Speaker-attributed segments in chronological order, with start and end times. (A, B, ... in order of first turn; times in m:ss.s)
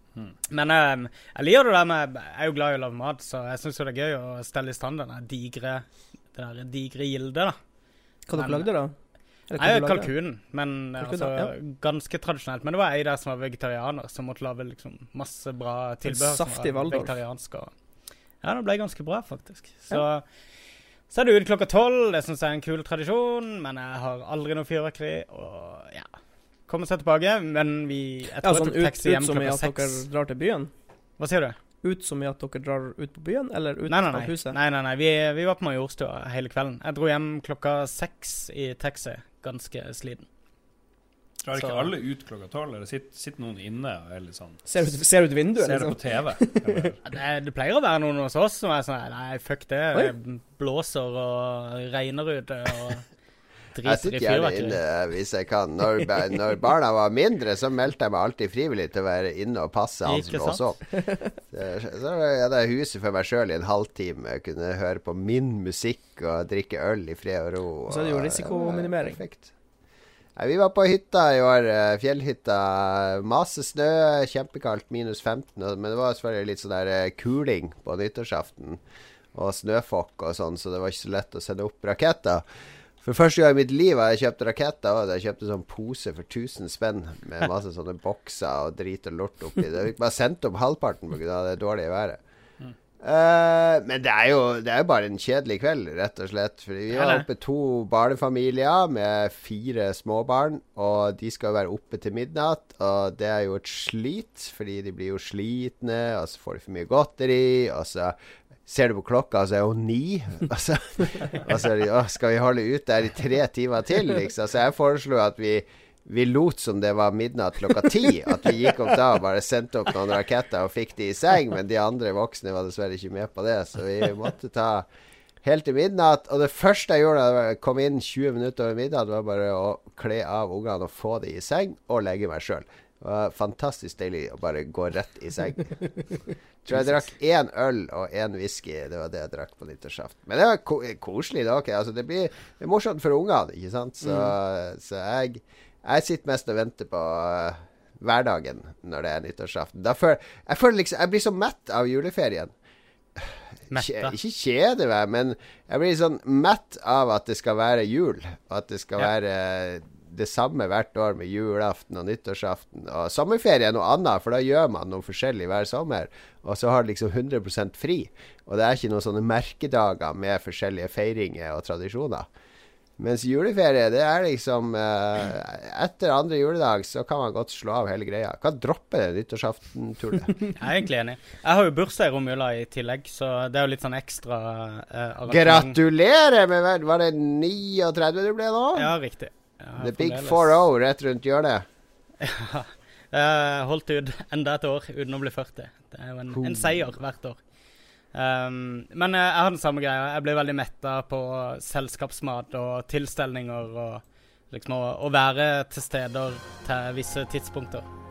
0:00.5-0:07.6 A
0:08.3-0:08.9 B
0:08.3-0:08.7 A
0:09.5-0:10.1 B
0:09.6-0:17.7 A
0:11.0-0:11.5 B
0:16.0-0:17.2 B
0:18.4-0:20.2 A
0:21.1-0:26.1 A
0:26.7-0:30.0 A
0:28.4-0:30.7 B
0:31.2-0:31.6 A
0:31.8-0:34.6 B
0:33.9-0:40.3 A
0:41.4-0:44.9 C
0:41.5-0:41.9 A
0:44.6-0:46.9 B
0:45.5-0:47.0 C
0:47.0-0:53.0 A
0:53.7-0:54.8 A
0:53.8-1:00.8 D
1:00.0-1:00.6 A
1:01.5-1:09.5 D
1:07.9-1:09.2 B
1:10.4-1:18.8 D
1:19.3-1:22.4 D
1:23.0-1:32.2 D
1:33.0-1:48.1 D
1:36.9-1:37.2 A
1:48.7-2:04.9 D
2:05.4-2:15.7 D
2:16.6-2:32.5 D
2:24.0-2:24.3 B
2:33.2-2:52.3 D
2:33.7-2:34.1 A
2:53.0-3:00.4 D
3:00.6-3:05.8 A
3:05.3-3:08.9 D
3:08.8-3:10.6 A
3:09.8-3:11.6 D
3:12.2-3:17.4 A
3:16.3-3:16.8 D
3:18.1-3:27.8 A